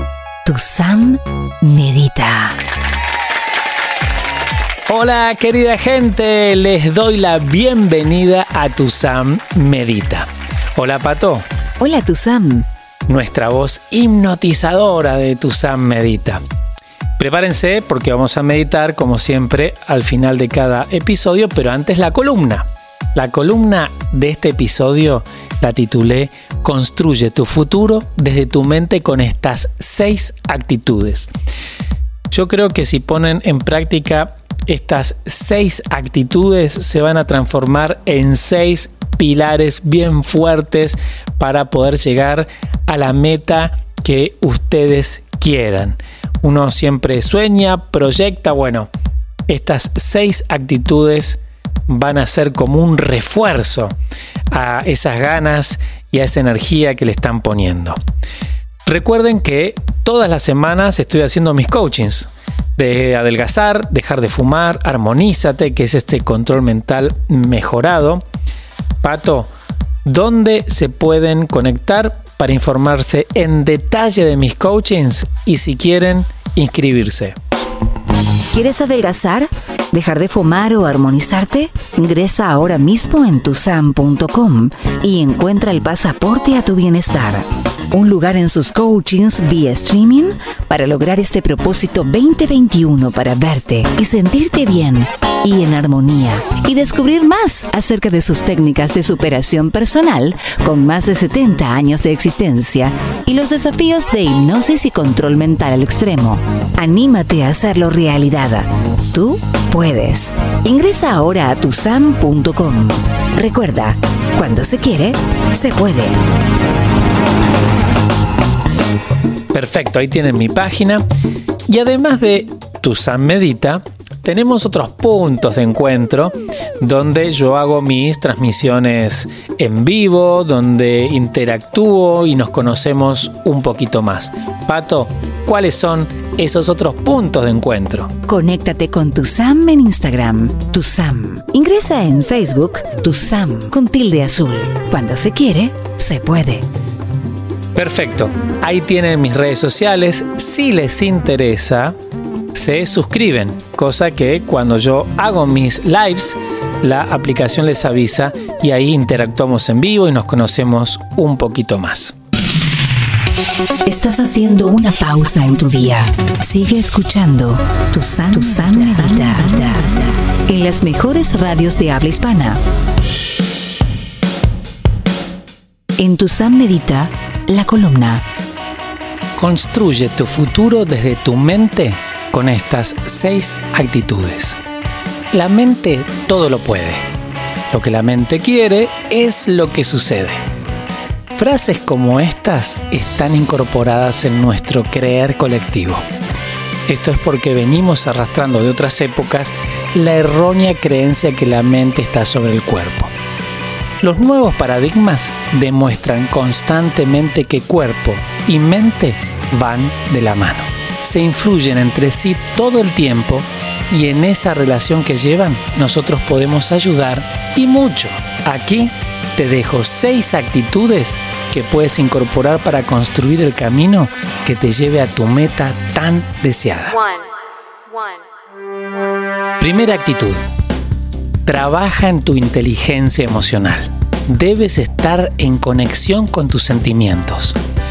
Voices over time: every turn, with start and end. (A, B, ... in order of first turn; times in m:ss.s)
0:00.4-0:02.6 A
0:04.9-0:11.4 B
0:11.8-0:12.7 A
0:13.1-0:16.4 B
0:17.2-0:31.3 B
0:32.3-0:48.9 B
0:49.5-0:54.0 B
0:54.5-0:58.0 B
0:58.8-1:08.2 B
1:09.0-1:09.5 B
1:10.0-1:17.4 B
1:18.5-1:56.2 A
1:59.5-2:01.0 B
2:01.7-2:18.1 B
2:18.3-2:26.6 A
2:27.7-2:31.9 B
2:32.5-2:42.1 B
2:43.8-2:52.6 A
2:56.0-2:58.2 A
2:59.4-3:04.6 B
3:05.3-3:07.0 B
3:07.7-3:10.4 B
3:11.3-3:16.0 B
3:16.9-3:23.1 B
3:24.0-3:47.3 B
3:49.6-3:50.4 B
3:51.4-3:57.6 B